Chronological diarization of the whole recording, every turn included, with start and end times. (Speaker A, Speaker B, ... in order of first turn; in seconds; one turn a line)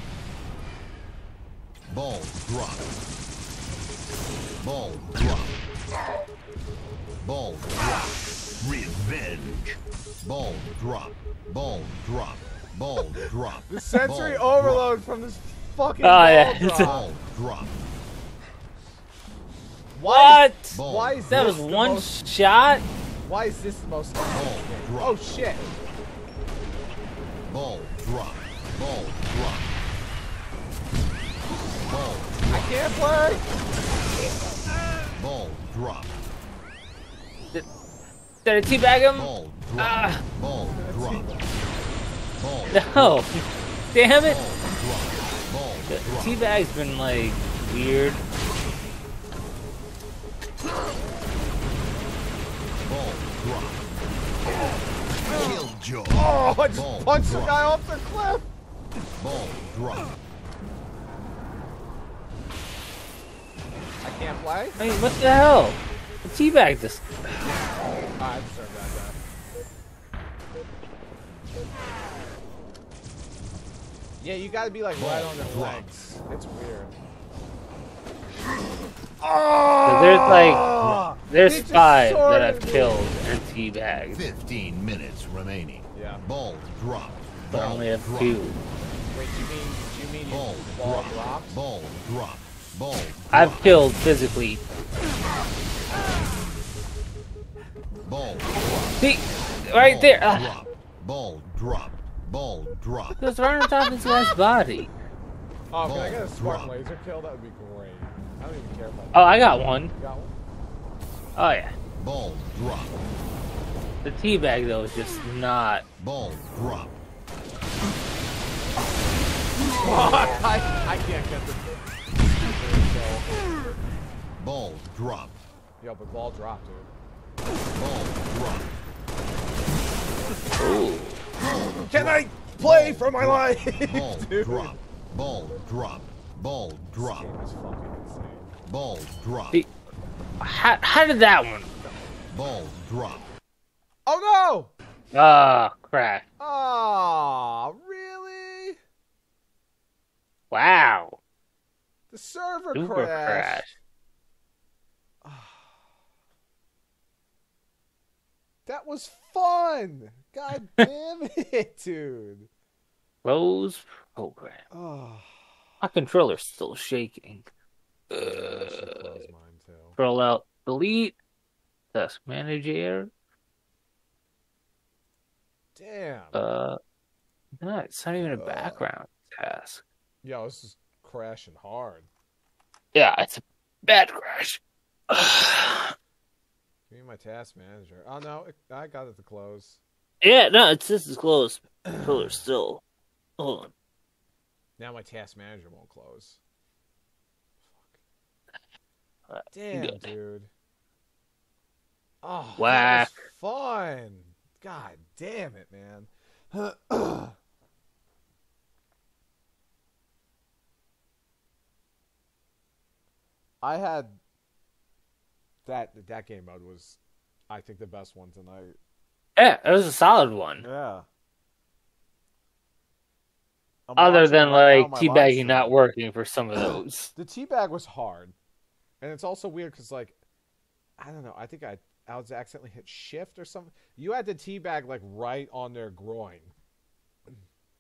Speaker A: 1.9-3.0
Speaker A: 4.6-5.6
Speaker A: 7.2-14.9
Speaker B: 13.7-17.1
Speaker C: 16.0-16.9
Speaker A: 16.8-17.8
Speaker B: 19.9-22.1
Speaker C: 20.1-22.8
Speaker A: 20.7-21.3
Speaker B: 23.2-25.7
Speaker A: 24.3-25.2
Speaker A: 27.5-29.8
Speaker A: 31.8-32.9
Speaker B: 32.5-33.5
Speaker A: 35.0-36.2
Speaker C: 38.5-40.2
Speaker A: 39.1-41.4
Speaker B: 40.7-41.5
Speaker A: 42.4-43.2
Speaker C: 42.7-43.4
Speaker C: 43.9-44.4
Speaker A: 44.2-46.4
Speaker C: 45.9-48.2
Speaker A: 52.8-53.9
Speaker A: 55.2-57.6
Speaker B: 56.1-58.5
Speaker A: 59.2-60.2
Speaker B: 64.0-64.8
Speaker C: 64.8-67.3
Speaker B: 68.2-69.2
Speaker B: 74.2-76.9
Speaker A: 75.0-75.9
Speaker B: 79.2-83.2
Speaker C: 79.8-80.7
Speaker A: 80.3-81.1
Speaker C: 81.3-84.2
Speaker A: 84.1-88.4
Speaker B: 85.9-86.2
Speaker C: 87.5-88.6
Speaker B: 89.1-91.6
Speaker A: 90.3-93.9
Speaker C: 93.3-94.6
Speaker B: 95.9-96.2
Speaker A: 98.0-99.0
Speaker C: 99.0-100.5
Speaker A: 99.8-103.3
Speaker C: 103.2-104.9
Speaker B: 105.7-110.4
Speaker A: 105.8-106.7
Speaker C: 109.1-109.9
Speaker C: 111.4-111.7
Speaker A: 112.0-113.1
Speaker C: 114.0-115.8
Speaker A: 116.0-116.9
Speaker B: 119.7-123.3
Speaker A: 124.4-125.4
Speaker B: 125.8-126.9
Speaker A: 127.7-128.7
Speaker C: 130.6-131.2
Speaker A: 131.4-137.3
Speaker B: 131.7-134.8
Speaker B: 137.0-138.5
Speaker A: 138.7-139.6
Speaker C: 140.4-141.7
Speaker A: 142.3-143.3
Speaker B: 144.1-144.7
Speaker C: 145.1-146.2
Speaker B: 146.4-148.8
Speaker C: 150.5-151.2
Speaker B: 152.1-153.6
Speaker C: 152.8-153.7
Speaker B: 155.2-155.8
Speaker B: 158.7-162.5
Speaker C: 163.2-164.6
Speaker B: 164.7-165.5
Speaker C: 165.8-167.5
Speaker C: 168.1-169.2
Speaker B: 168.1-170.0
Speaker C: 170.0-171.2
Speaker C: 171.9-173.1
Speaker B: 175.8-176.4
Speaker C: 176.3-176.8
Speaker C: 177.6-179.8
Speaker B: 178.2-178.8
Speaker B: 180.2-182.1
Speaker C: 182.9-185.9
Speaker B: 186.9-189.8
Speaker C: 190.2-192.8
Speaker B: 191.8-192.4
Speaker C: 193.4-193.7
Speaker B: 194.8-196.4
Speaker B: 197.6-198.0
Speaker C: 199.3-200.1
Speaker B: 199.5-200.5
Speaker B: 202.2-207.4
Speaker C: 202.6-203.3
Speaker B: 213.6-214.2
Speaker B: 215.7-218.8
Speaker C: 219.4-220.7
Speaker B: 220.6-221.1
Speaker B: 223.9-225.8
Speaker C: 224.0-227.1
Speaker B: 227.2-228.4
Speaker B: 229.0-230.2
Speaker B: 231.0-236.5